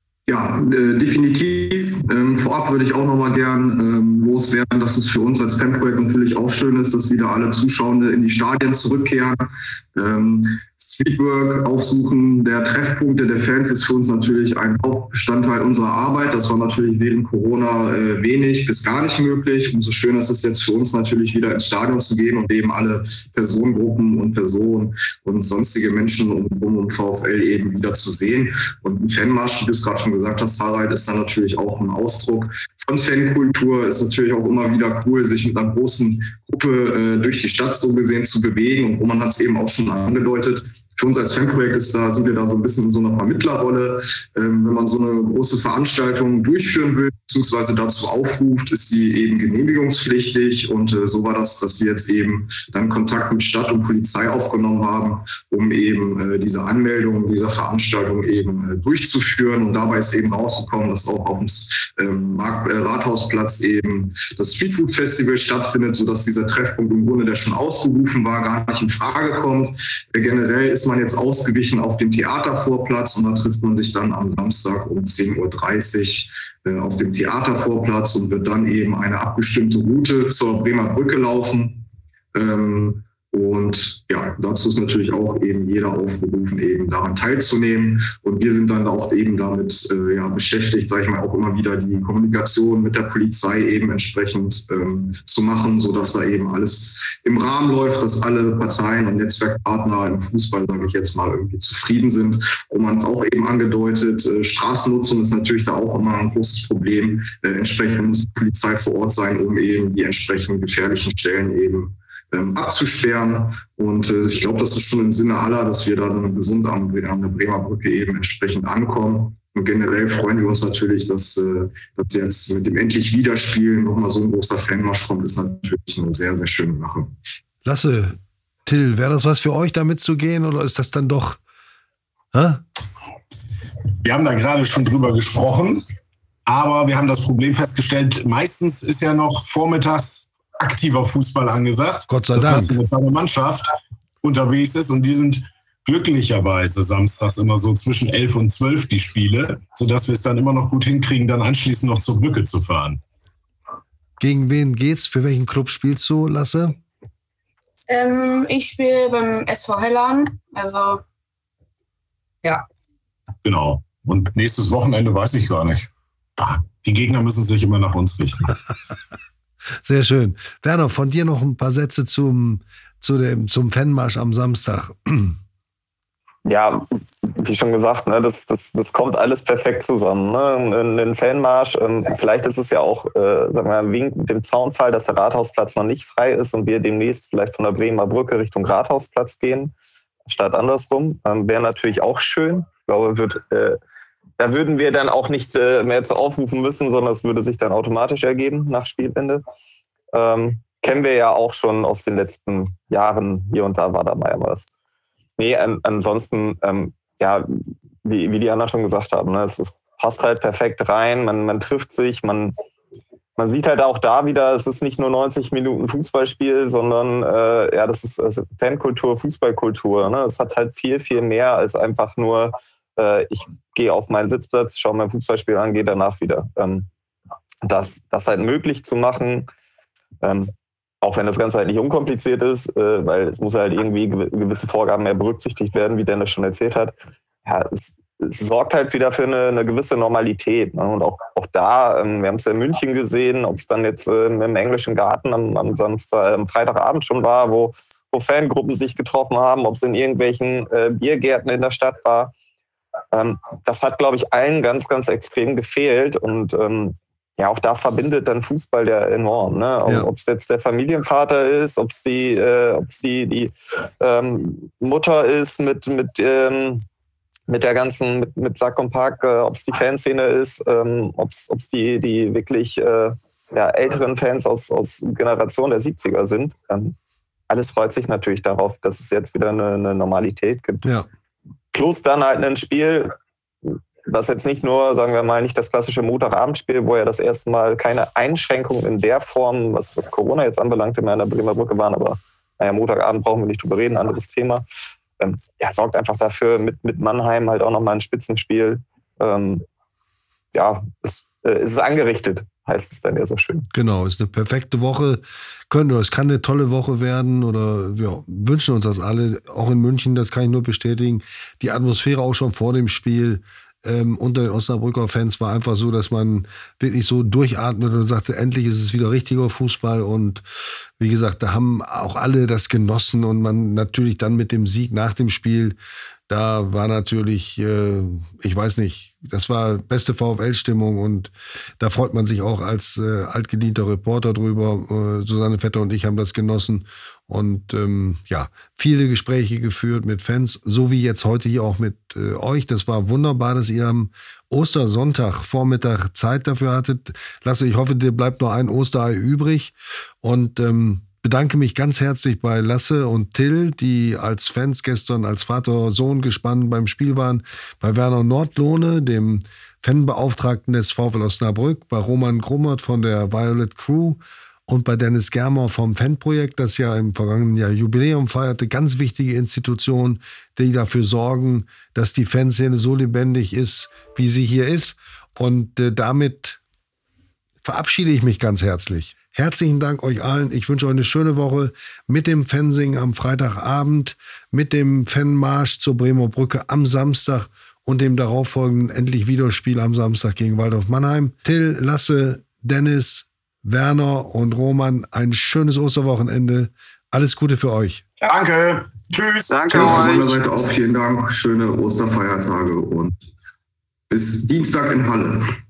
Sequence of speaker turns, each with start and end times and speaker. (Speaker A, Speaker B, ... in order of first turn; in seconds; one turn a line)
Speaker A: 0.3-127.2
Speaker B: 127.6-131.4
Speaker B: 132.3-132.6
Speaker C: 134.0-135.9
Speaker C: 136.4-143.7
Speaker B: 142.1-142.8
Speaker C: 144.2-153.0
Speaker B: 154.2-156.8
Speaker D: 157.9-161.0
Speaker C: 163.4-168.4
Speaker B: 169.8-175.4
Speaker E: 176.4-189.7
Speaker E: 190.3-193.8
Speaker E: 194.4-199.4
Speaker E: 200.1-204.7
Speaker E: 205.4-207.5
Speaker E: 208.0-212.5
Speaker E: 213.4-226.9
Speaker E: 227.6-229.5
Speaker E: 230.2-230.5
Speaker E: 231.0-236.9
Speaker E: 237.4-252.3
Speaker E: 253.1-266.8
Speaker E: 267.5-276.9
Speaker E: 277.5-280.9
Speaker B: 280.8-281.1
Speaker E: 281.7-283.1
Speaker E: 283.6-294.6
Speaker E: 295.2-299.6
Speaker E: 300.5-303.7
Speaker B: 303.7-320.4
Speaker B: 321.0-325.8
Speaker B: 326.3-376.6
Speaker B: 377.6-398.0
Speaker C: 398.2-400.2
Speaker A: 399.7-403.1
Speaker A: 404.1-405.4